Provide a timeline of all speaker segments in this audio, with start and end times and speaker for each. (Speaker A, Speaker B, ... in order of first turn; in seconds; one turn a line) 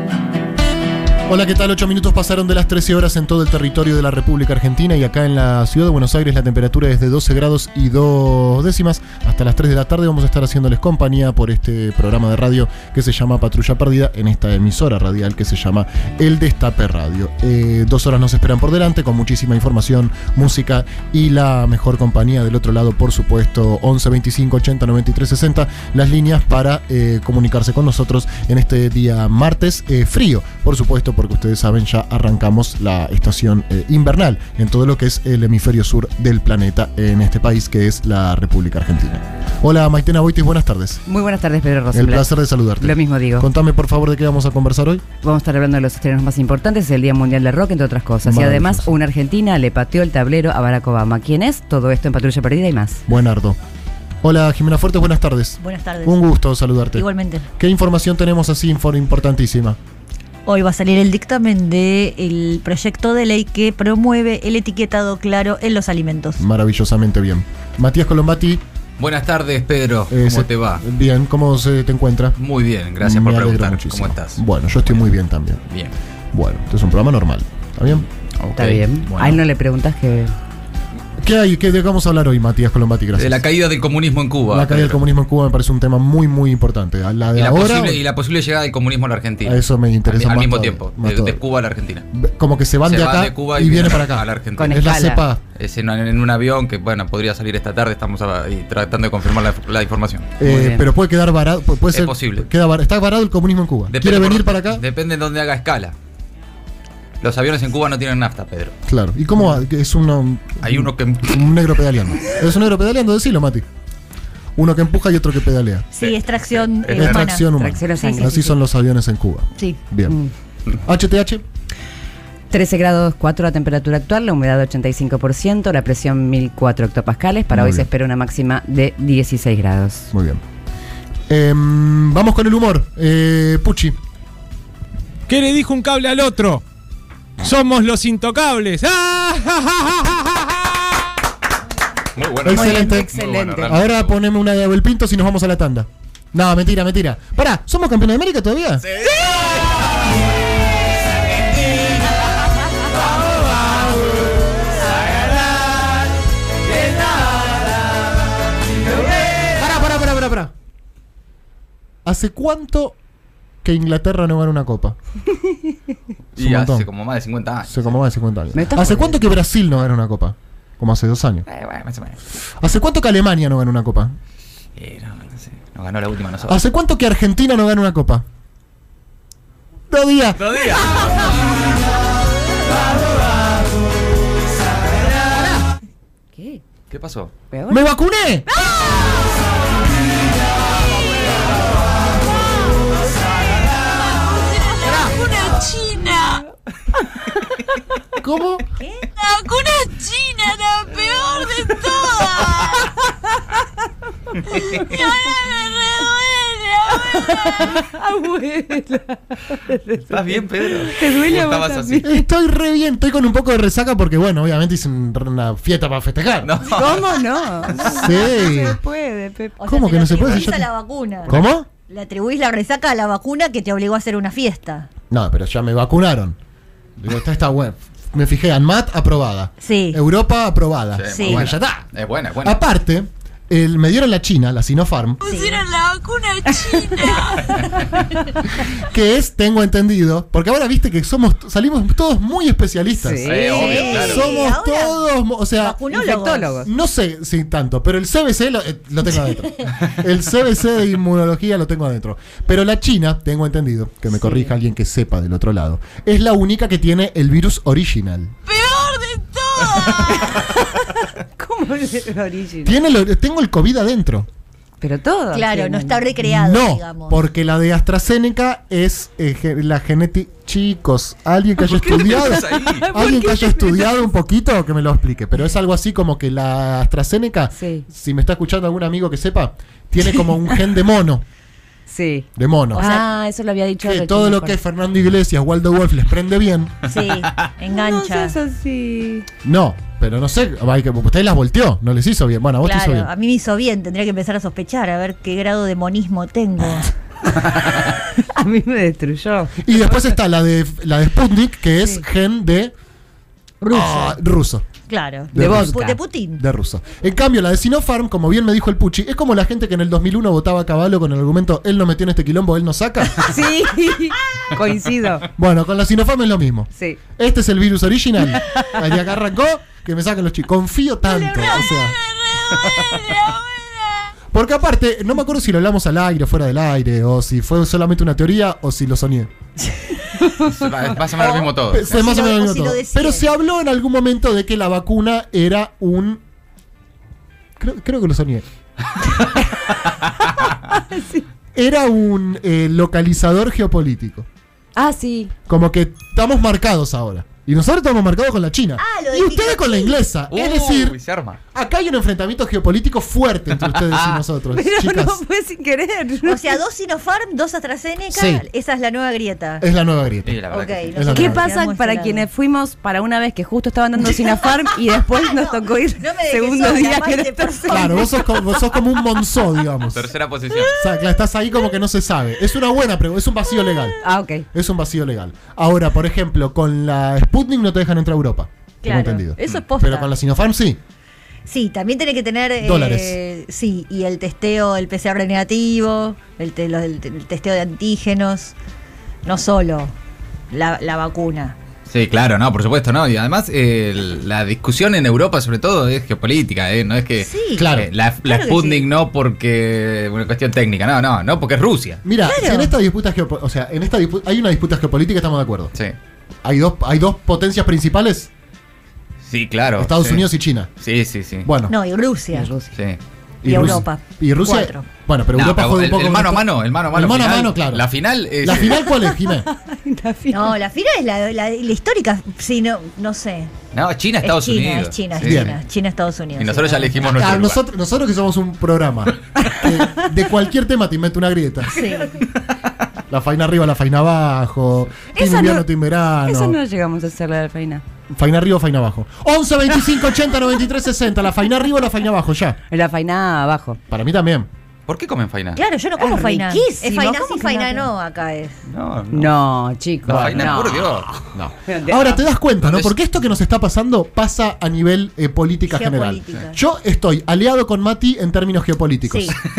Speaker A: 1.3-41.0
Speaker B: 41.1-42.3
Speaker A: 41.9-45.0
Speaker B: 42.8-43.5
Speaker B: 45.2-53.0
Speaker A: 48.2-48.9
Speaker A: 53.1-53.6
Speaker A: 54.2-57.1
Speaker C: 55.6-56.2
Speaker C: 56.9-57.5
Speaker A: 57.6-59.8
Speaker C: 60.5-66.4
Speaker A: 66.4-68.6
Speaker D: 69.0-70.8
Speaker A: 70.1-72.4
Speaker D: 72.4-74.4
Speaker A: 73.0-75.6
Speaker A: 76.3-78.1
Speaker D: 78.4-78.8
Speaker B: 78.5-80.3
Speaker A: 79.0-79.4
Speaker A: 81.2-83.4
Speaker D: 83.2-85.0
Speaker A: 84.5-88.0
Speaker D: 87.3-92.1
Speaker A: 89.4-91.4
Speaker A: 92.1-95.4
Speaker D: 92.9-94.9
Speaker B: 94.6-95.2
Speaker D: 95.6-100.4
Speaker A: 100.4-104.8
Speaker B: 100.4-100.9
Speaker D: 101.9-102.5
Speaker D: 103.9-106.0
Speaker D: 107.2-108.8
Speaker A: 108.9-113.7
Speaker D: 110.6-111.5
Speaker A: 114.6-115.9
Speaker C: 116.0-117.5
Speaker D: 116.0-117.3
Speaker A: 116.9-120.2
Speaker B: 117.5-118.5
Speaker C: 118.0-118.4
Speaker A: 120.8-121.4
Speaker B: 122.5-130.1
Speaker A: 127.5-127.9
Speaker A: 130.1-130.4
Speaker A: 131.3-134.0
Speaker E: 135.3-136.6
Speaker E: 137.4-141.1
Speaker D: 142.2-144.1
Speaker A: 142.4-143.1
Speaker B: 142.5-143.8
Speaker A: 143.6-148.8
Speaker D: 148.8-149.8
Speaker A: 159.5-160.5
Speaker A: 162.1-163.0
Speaker A: 163.6-165.0
Speaker A: 166.4-166.9
Speaker D: 166.4-168.0
Speaker A: 167.7-171.5
Speaker B: 168.5-169.2
Speaker D: 171.5-172.2
Speaker A: 172.6-174.2
Speaker D: 174.8-176.6
Speaker A: 176.5-178.2
Speaker A: 179.9-180.6
Speaker D: 180.4-181.6
Speaker A: 185.3-185.6
Speaker B: 186.3-186.6
Speaker D: 186.9-187.3
Speaker B: 187.5-187.9
Speaker A: 187.7-188.5
Speaker B: 188.5-189.3
Speaker B: 194.4-196.5
Speaker F: 194.8-195.8
Speaker A: 198.2-198.6
Speaker C: 198.8-199.1
Speaker F: 199.2-199.6
Speaker B: 199.2-203.2
Speaker F: 201.2-201.7
Speaker B: 204.5-206.1
Speaker D: 204.5-205.1
Speaker F: 206.0-206.7
Speaker B: 206.8-212.2
Speaker D: 210.1-212.1
Speaker A: 212.0-216.5
Speaker D: 216.4-217.1
Speaker B: 216.6-219.6
Speaker A: 217.8-218.8
Speaker C: 219.6-221.3
Speaker A: 219.7-220.7
Speaker D: 220.2-220.5
Speaker A: 221.2-221.7
Speaker C: 221.9-224.9
Speaker A: 225.1-226.4
Speaker A: 227.0-231.9
Speaker C: 229.6-230.0
Speaker D: 231.0-232.6
Speaker C: 231.2-231.4
Speaker A: 232.4-235.2
Speaker C: 235.2-235.7
Speaker F: 235.3-236.8
Speaker B: 236.3-237.7
Speaker A: 238.5-245.8
Speaker B: 242.9-244.0
Speaker D: 243.2-244.3
Speaker C: 243.4-245.1
Speaker C: 245.6-246.6
Speaker B: 245.9-246.7
Speaker A: 246.6-258.4
Speaker B: 254.1-254.5
Speaker F: 258.5-260.0
Speaker B: 258.5-262.8
Speaker A: 262.6-264.3
Speaker B: 264.8-266.0
Speaker C: 265.3-267.2
Speaker A: 266.2-281.2
Speaker D: 271.6-272.9
Speaker B: 271.6-274.0
Speaker B: 277.6-277.9
Speaker B: 281.9-284.6
Speaker A: 282.4-282.9
Speaker C: 282.8-283.1
Speaker A: 283.8-286.9
Speaker C: 286.9-288.4
Speaker B: 287.7-289.3
Speaker A: 289.4-293.1
Speaker C: 292.6-296.9
Speaker B: 298.1-299.9
Speaker A: 299.6-302.7
Speaker A: 303.7-304.6
Speaker C: 303.7-304.1
Speaker C: 304.9-306.4
Speaker B: 305.4-306.0
Speaker A: 305.4-305.9
Speaker A: 306.4-313.3
Speaker B: 313.2-315.3
Speaker A: 315.4-322.0
Speaker F: 322.5-323.4
Speaker D: 322.7-323.1
Speaker A: 324.3-329.3
Speaker D: 330.4-332.0
Speaker C: 331.2-333.3
Speaker A: 331.7-336.2
Speaker A: 337.6-338.4
Speaker B: 340.7-341.2
Speaker A: 341.5-344.3
Speaker B: 344.8-345.3
Speaker A: 345.5-351.0
Speaker C: 348.8-350.0
Speaker D: 350.3-351.4
Speaker A: 351.5-355.2
Speaker D: 353.7-354.2
Speaker B: 354.5-356.6
Speaker C: 356.2-359.7
Speaker A: 358.1-358.5
Speaker A: 359.6-361.5
Speaker D: 360.3-361.0
Speaker C: 360.5-362.2
Speaker B: 361.1-368.4
Speaker C: 364.1-364.4
Speaker C: 365.0-368.2
Speaker A: 367.7-370.1
Speaker D: 369.9-370.8
Speaker A: 370.8-374.0
Speaker B: 374.0-374.5
Speaker A: 374.5-380.8
Speaker C: 378.8-380.1
Speaker C: 381.5-388.5
Speaker A: 382.6-383.2
Speaker C: 389.2-389.9
Speaker C: 390.5-391.6
Speaker D: 391.9-402.0
Speaker C: 397.2-397.7
Speaker A: 397.6-397.9
Speaker C: 398.2-398.9
Speaker A: 402.0-405.7
Speaker C: 402.2-402.7
Speaker A: 406.4-408.3
Speaker D: 409.2-411.5
Speaker A: 409.8-410.7
Speaker A: 411.4-411.8
Speaker C: 411.7-412.5
Speaker B: 412.3-412.7
Speaker D: 412.7-413.0
Speaker A: 413.4-417.9
Speaker C: 413.4-414.9
Speaker D: 413.5-413.8
Speaker D: 415.3-418.9
Speaker A: 418.4-419.5
Speaker B: 419.2-420.6
Speaker C: 420.3-423.5
Speaker D: 423.7-425.5
Speaker C: 424.2-426.9
Speaker A: 425.2-425.6
Speaker D: 426.4-427.6
Speaker A: 427.1-431.8
Speaker C: 431.7-432.2
Speaker A: 433.1-436.6
Speaker B: 435.1-435.7
Speaker B: 436.2-437.8
Speaker A: 438.1-442.6
Speaker B: 442.7-443.8
Speaker A: 443.9-444.5
Speaker D: 444.9-445.6
Speaker C: 445.6-448.6
Speaker B: 446.0-447.9
Speaker D: 448.7-449.4
Speaker B: 449.1-451.0
Speaker A: 450.1-459.4
Speaker D: 450.1-451.1
Speaker B: 451.7-452.2
Speaker D: 452.6-453.0
Speaker C: 455.7-456.6
Speaker C: 459.1-459.4